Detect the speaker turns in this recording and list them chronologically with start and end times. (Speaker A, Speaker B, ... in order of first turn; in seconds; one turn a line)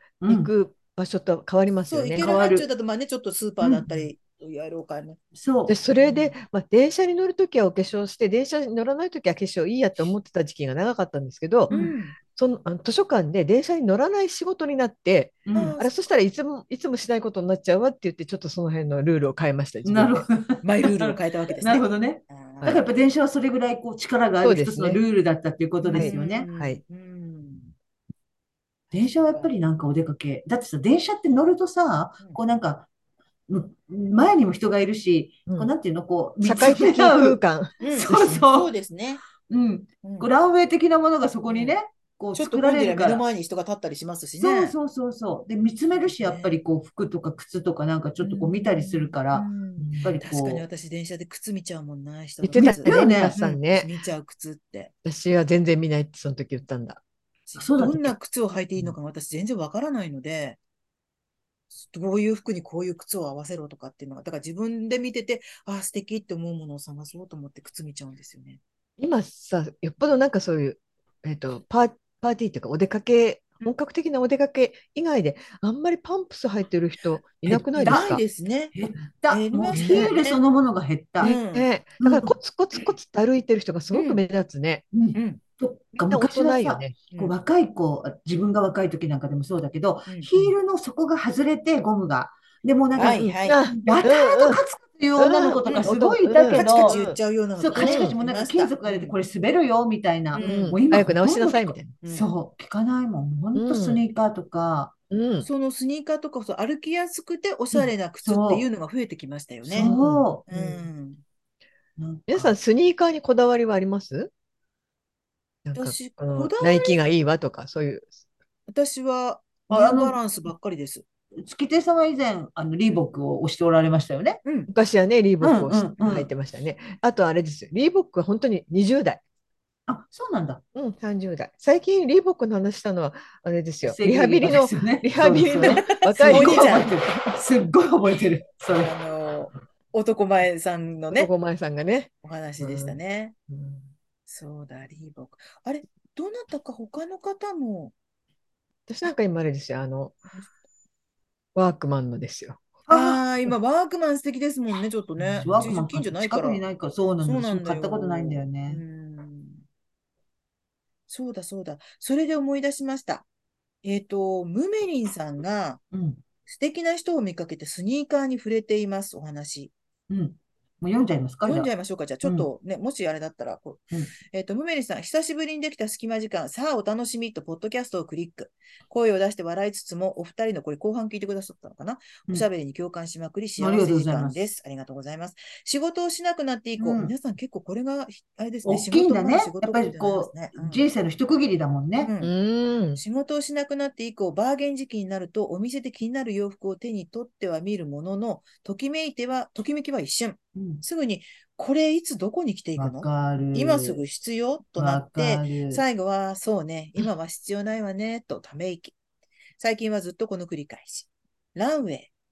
Speaker A: 0.2-0.5
Speaker B: 0.3-2.3
Speaker C: 1.9-5.2
Speaker A: 2.2-2.7
Speaker A: 3.6-4.1
Speaker A: 5.3-5.8
Speaker B: 5.7-11.7
Speaker C: 11.7-12.2
Speaker B: 12.3-20.3
Speaker A: 15.5-15.8
Speaker C: 15.5-15.9
Speaker A: 19.9-26.5
Speaker C: 20.6-22.8
Speaker B: 24.4-25.0
Speaker C: 25.8-27.7
Speaker B: 25.9-26.8
Speaker A: 28.9-32.9
Speaker A: 33.5-38.7
Speaker B: 36.4-37.7
Speaker C: 37.8-39.2
Speaker A: 39.5-43.2
Speaker C: 40.0-40.3
Speaker C: 41.5-41.8
Speaker C: 42.4-44.7
Speaker A: 44.4-50.6
Speaker C: 46.1-46.6
Speaker C: 48.2-54.9
Speaker B: 49.8-50.2
Speaker B: 52.4-53.9
Speaker A: 52.5-53.4
Speaker B: 55.0-57.0
Speaker C: 57.5-60.6
Speaker A: 57.6-58.1
Speaker C: 61.7-68.6
Speaker B: 69.0-78.2
Speaker A: 77.5-78.2
Speaker C: 77.8-78.7
Speaker A: 78.7-81.4
Speaker C: 79.3-80.4
Speaker B: 79.7-80.1
Speaker B: 81.2-84.8
Speaker C: 81.2-81.7
Speaker A: 82.0-82.4
Speaker C: 83.9-84.2
Speaker A: 84.9-97.0
Speaker C: 85.2-85.4
Speaker B: 86.0-87.0
Speaker C: 93.0-93.7
Speaker B: 93.0-94.6
Speaker B: 95.2-97.2
Speaker C: 95.5-99.2
Speaker A: 97.6-104.9
Speaker B: 97.8-98.1
Speaker C: 100.3-100.8
Speaker B: 100.4-101.9
Speaker C: 102.0-102.3
Speaker B: 103.5-104.0
Speaker B: 105.1-105.5
Speaker C: 105.4-109.9
Speaker A: 107.8-108.7
Speaker A: 109.7-110.8
Speaker B: 109.7-110.3
Speaker C: 110.5-111.2
Speaker A: 112.0-112.5
Speaker B: 112.3-114.3
Speaker B: 115.7-118.1
Speaker C: 115.8-117.0
Speaker C: 118.7-121.0
Speaker A: 119.7-120.2
Speaker A: 121.4-124.4
Speaker C: 124.5-124.7
Speaker B: 124.7-129.2
Speaker A: 125.4-126.3
Speaker A: 129.9-130.6
Speaker B: 130.8-137.1
Speaker A: 133.8-138.9
Speaker C: 135.6-137.0
Speaker C: 138.8-141.3
Speaker B: 141.1-142.1
Speaker C: 142.2-143.3
Speaker B: 143.5-143.9
Speaker C: 144.3-147.9
Speaker B: 148.9-150.2
Speaker B: 151.6-152.8
Speaker A: 152.9-153.2
Speaker C: 152.9-156.6
Speaker B: 155.2-155.7
Speaker A: 155.3-158.8
Speaker C: 157.2-159.6
Speaker C: 161.1-163.3
Speaker C: 163.8-165.8
Speaker A: 165.9-166.2
Speaker C: 166.5-169.7
Speaker A: 170.1-171.7
Speaker C: 171.4-190.9
Speaker A: 172.2-172.5
Speaker A: 183.6-184.4
Speaker A: 186.8-187.1
Speaker A: 188.7-192.1
Speaker C: 192.0-192.3
Speaker B: 192.2-193.0
Speaker C: 193.0-208.9
Speaker A: 200.6-200.8
Speaker A: 202.8-204.0
Speaker A: 204.8-205.8
Speaker C: 209.6-212.1